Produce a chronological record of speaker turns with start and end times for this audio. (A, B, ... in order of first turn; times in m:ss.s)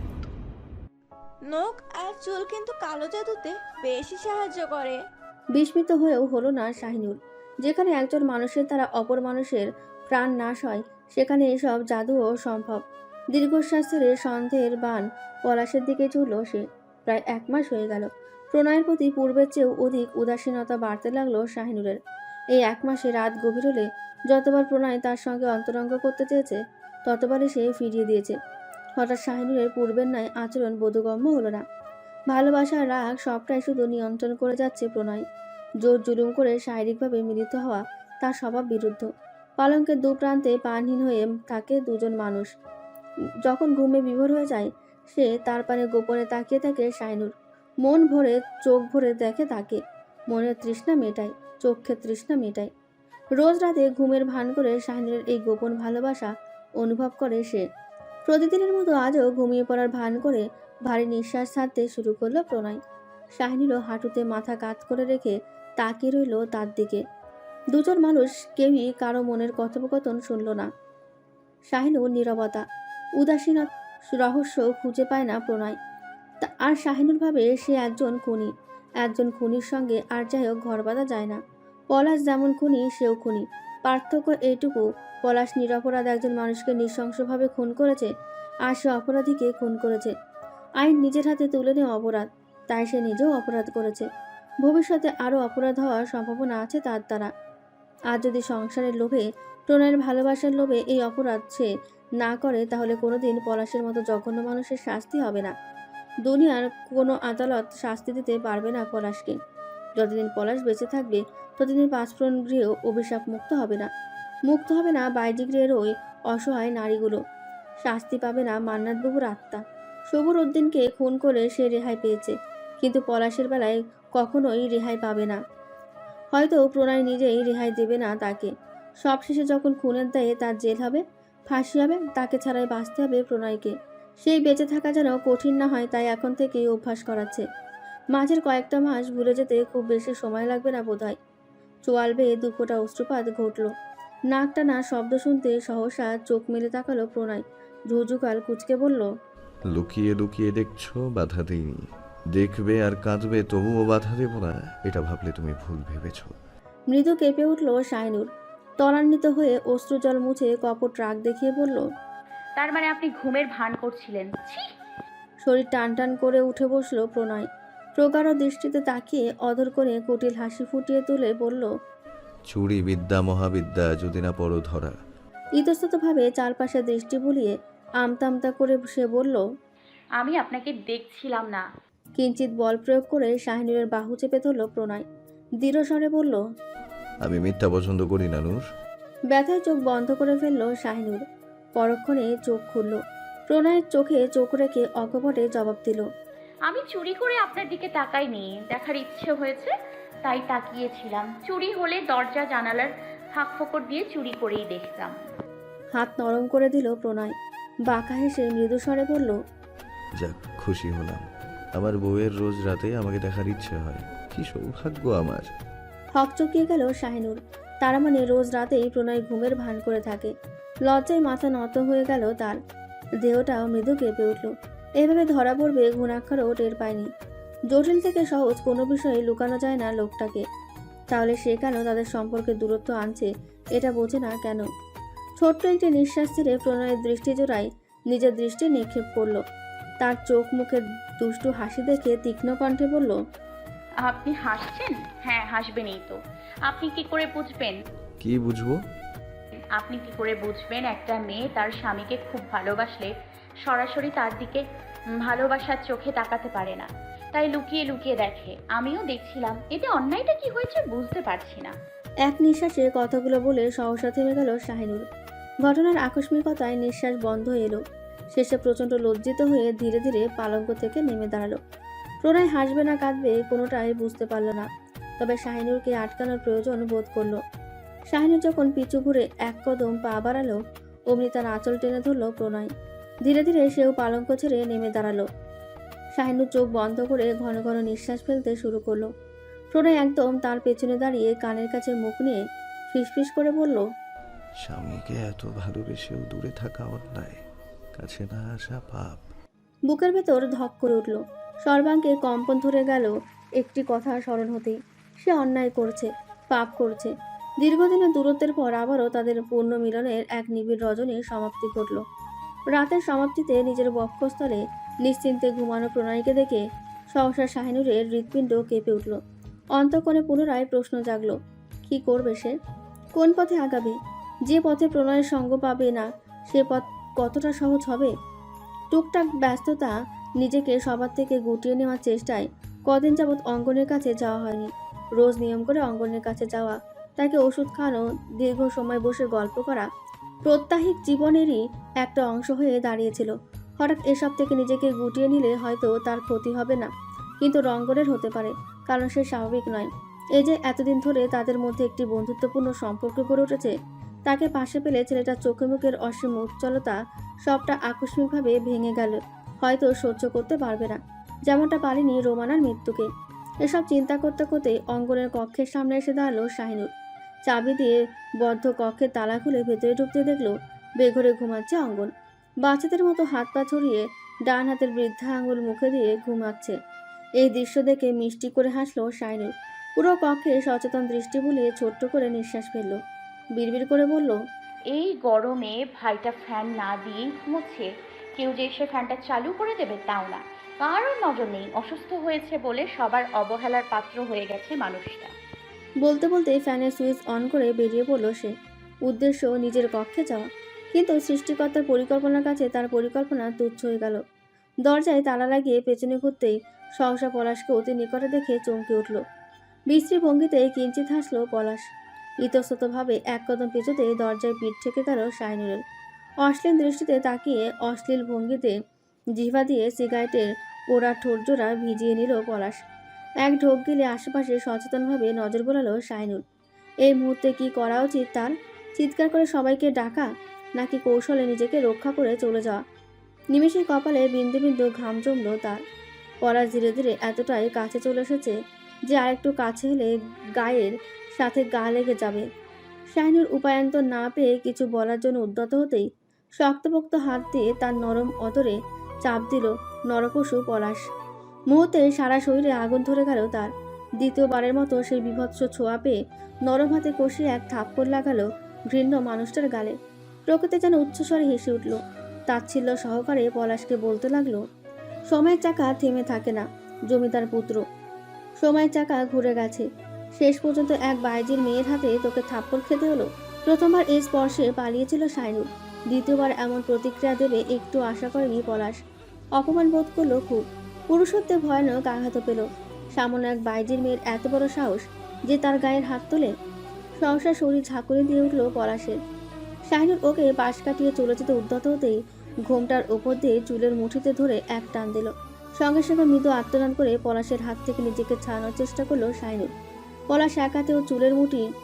0:01.4-0:05.0 A
0:05.6-0:12.8 B
0:13.3-0:22.0 B
0:22.5-0:28.4 B
0:29.0-0:31.6 B
0:32.3-0:35.2 B
0:35.8-0:39.1 B
0:39.6-0:42.5 B
0:43.4-0:47.3 B
0:47.8-0:49.8 B
0:50.3-0:52.7 B
0:53.4-0:57.6 B
0:58.3-1:02.8 B
1:03.4-1:07.0 B
1:07.7-1:10.7 B
1:11.7-1:12.6 B
1:13.2-1:15.8 B
1:16.4-1:18.5 B
1:19.0-1:21.4 B
1:21.9-1:28.1 B
1:28.7-1:30.1 B
1:30.8-1:34.1 B
1:34.6-1:37.3 B
1:38.1-1:41.7 B
1:42.2-1:45.5 B
1:46.2-1:49.4 B
1:50.0-1:53.9 B
1:54.5-1:57.2 B
1:57.8-1:59.6 B
2:00.1-2:05.4 B
2:06.3-2:08.5 B
2:09.0-2:17.4 B
2:18.1-2:21.2 B
2:21.8-2:23.7 B
2:24.3-2:29.1 B
2:29.7-2:36.4 C
2:36.9-2:38.3 B
2:38.8-2:41.8 B
2:42.6-2:44.6 D
2:45.4-2:51.7 B
2:52.5-2:55.0 C
2:55.6-2:59.4 B
3:00.2-3:01.6 D
3:02.2-3:05.0 B
3:05.6-3:06.4 B
3:07.2-3:08.6 C
3:09.3-3:11.2 B
3:11.8-3:13.0 B
3:13.5-3:16.0 B
3:16.7-3:19.7 D
3:20.2-3:25.1 D
3:26.0-3:27.3 B
3:27.9-3:29.4 B
3:30.2-3:31.2 C
3:31.8-3:35.5 C
3:36.2-3:40.3 B
3:40.9-3:42.6 B
3:43.2-3:47.1 B
3:47.7-3:50.4 B
3:51.1-3:54.6 B
3:55.4-3:59.4 B
4:00.0-4:03.1 B
4:04.0-4:07.8 D
4:08.2-4:08.8 C
4:09.8-4:13.1 D
4:13.6-4:14.6 D
4:15.2-4:21.7 D
4:22.3-4:25.0 B
4:25.6-4:27.8 B
4:28.4-4:31.6 B
4:32.2-4:34.7 B
4:35.2-4:37.4 B
4:38.1-4:40.6 B
4:41.1-4:42.7 B
4:43.2-4:45.2 B
4:46.2-4:49.1 B
4:49.7-4:53.8 B
4:54.6-4:57.4 C
4:58.0-4:59.2 C
4:59.9-5:12.0 B
5:12.7-5:16.6 B
5:17.1-5:19.2 B
5:19.8-5:21.3 B
5:21.9-5:22.5 B
5:23.2-5:24.0 B
5:24.5-5:28.1 B
5:28.9-5:39.9 B
5:40.5-5:46.9 B
5:47.4-5:53.7 B
5:54.3-6:03.1 B
6:03.6-6:06.9 B
6:07.5-6:12.1 B
6:12.6-6:16.8 B
6:17.4-6:23.0 B
6:23.6-6:24.4 B
6:24.9-6:35.3 D
6:36.0-6:38.5 B
6:39.1-6:44.2 B
6:44.9-6:49.2 B
6:49.9-6:51.8 B
6:52.4-6:55.8 B
6:56.4-6:58.8 B
6:59.4-7:02.8 B
7:03.4-7:06.4 B
7:07.0-7:12.8 B
7:13.5-7:15.8 B
7:16.4-7:18.5 B
7:19.1-7:22.4 B
7:23.1-7:26.1 B
7:26.6-7:31.0 B
7:31.7-7:33.7 B
7:34.2-7:40.0 B
7:40.5-7:42.0 B
7:42.5-7:44.6 B
7:45.3-7:47.8 B
7:48.6-7:49.8 B
7:50.4-7:59.0 B
7:59.6-8:02.6 B
8:03.2-8:06.5 B
8:07.2-8:09.2 B
8:09.9-8:19.7 B
8:20.3-8:21.6 B